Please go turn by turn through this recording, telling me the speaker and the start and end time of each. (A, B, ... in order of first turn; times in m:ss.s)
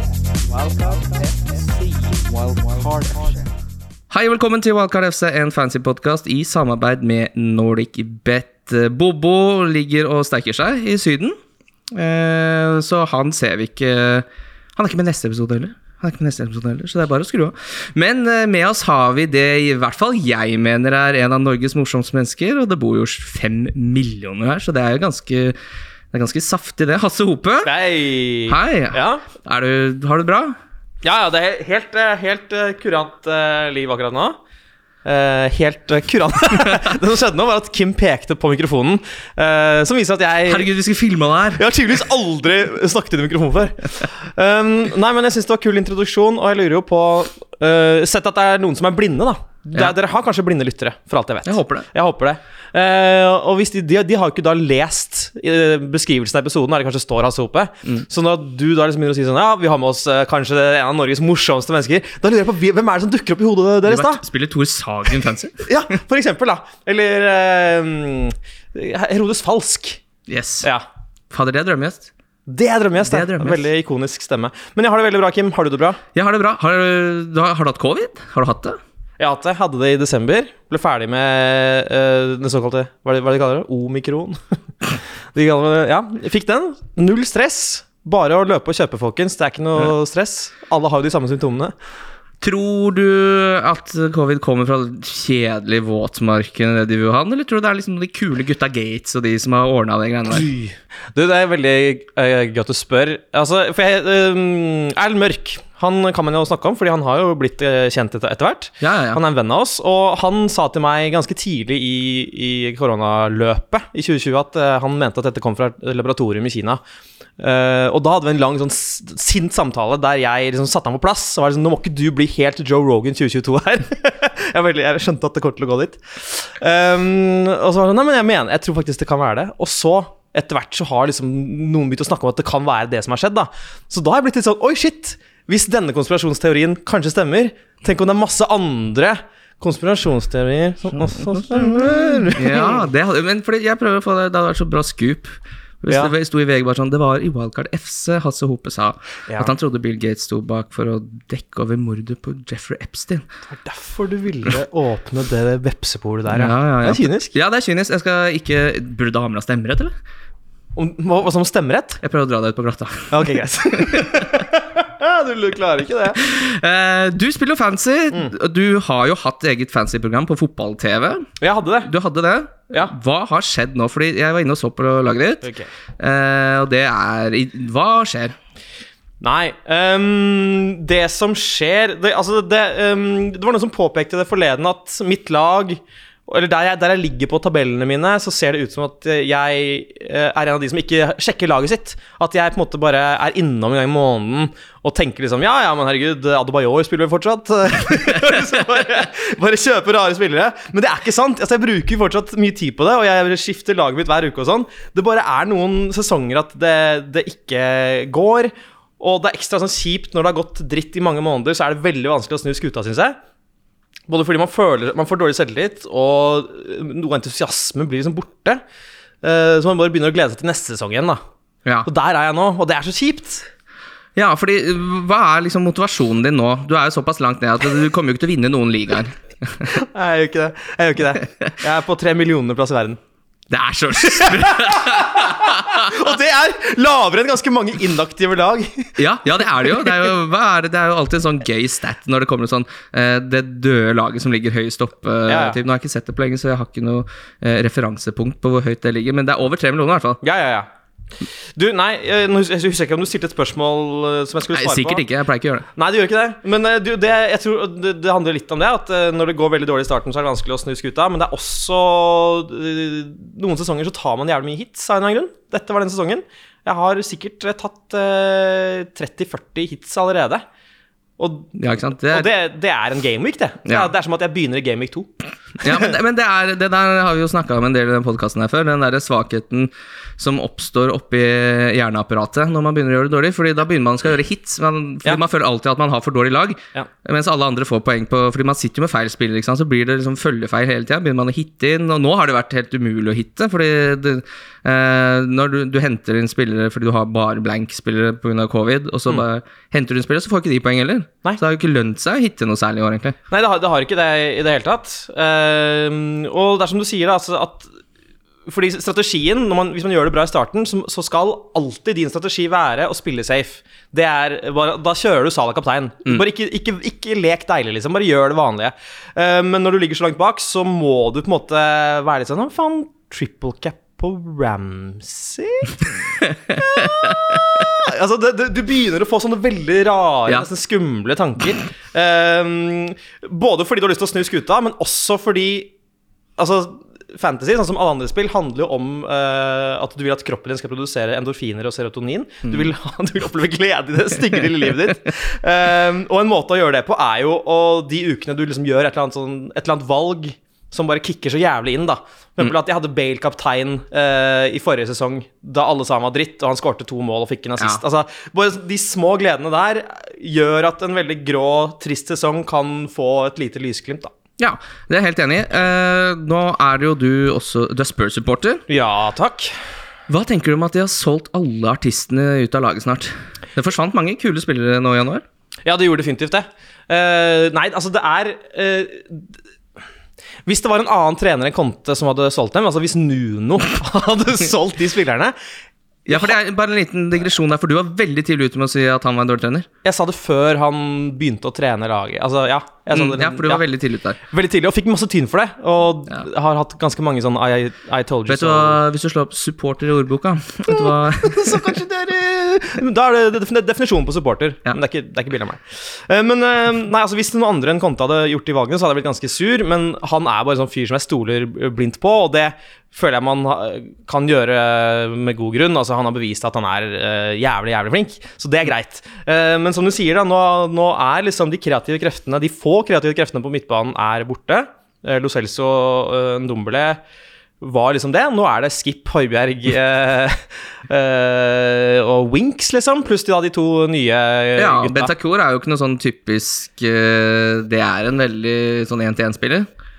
0:00.4-0:03.4 A
0:04.1-0:11.4 B
0:11.9-0:25.6 B
0:26.1-0:27.7 B
0:27.6-0:29.3 C
0:28.5-0:30.6 B
0:31.0-0:34.4 C
0:35.0-0:40.7 C
0:40.5-0:41.7 B
0:41.6-1:04.2 C
0:51.4-0:51.9 B
1:03.8-1:05.7 B
1:05.6-1:10.0 C
1:10.3-1:10.7 B
1:11.3-1:12.1 B
1:12.5-1:16.0 C
1:13.0-1:13.7 B
1:16.1-1:18.8 B
1:19.2-1:24.4 C
1:25.3-1:31.7 C
1:32.4-1:40.5 B
1:40.3-1:56.8 C
1:48.8-1:49.2 B
1:57.4-2:22.9 C
2:21.3-2:33.2 B
2:25.9-2:26.1 C
2:29.3-2:29.5 C
2:33.5-2:37.3 C
2:36.3-2:39.9 B
2:40.7-2:42.0 C
2:42.0-2:44.4 B
2:43.1-2:46.2 C
2:46.2-2:51.3 B
2:51.4-2:51.9 C
2:51.8-2:58.4 B
2:55.4-2:55.7 C
2:59.2-3:33.2 C
3:34.1-3:38.6 C
3:39.2-3:41.2 C
3:41.8-3:43.5 C
3:44.2-3:49.7 B
3:49.6-3:53.0 C
3:53.5-3:55.9 B
3:54.1-3:59.0 C
3:59.0-4:10.2 B
4:05.3-4:05.6 C
4:10.2-4:10.7 C
4:11.6-4:15.0 C
4:14.5-4:15.6 B
4:15.7-4:30.4 C
4:31.2-4:31.5 C
4:31.5-4:32.3 B
4:32.1-4:35.1 C
4:33.6-4:33.9 B
4:35.6-4:35.9 C
4:35.6-5:03.2 B
5:03.3-5:07.8 C
5:08.5-5:26.0 C
5:26.2-5:26.5 B
5:26.5-5:35.7 C
5:27.0-5:27.6 B
5:36.4-6:04.1 C
6:04.4-6:08.6 B
6:08.7-6:09.5 C
6:10.1-6:15.2 B
6:15.6-6:19.3 C
6:20.4-6:25.3 C
6:26.1-6:29.7 B
6:29.8-6:33.6 C
6:32.9-6:34.2 B
6:34.3-6:38.8 C
6:38.3-6:41.8 B
6:40.7-7:07.0 C
7:07.6-7:15.1 C
7:14.6-7:19.7 B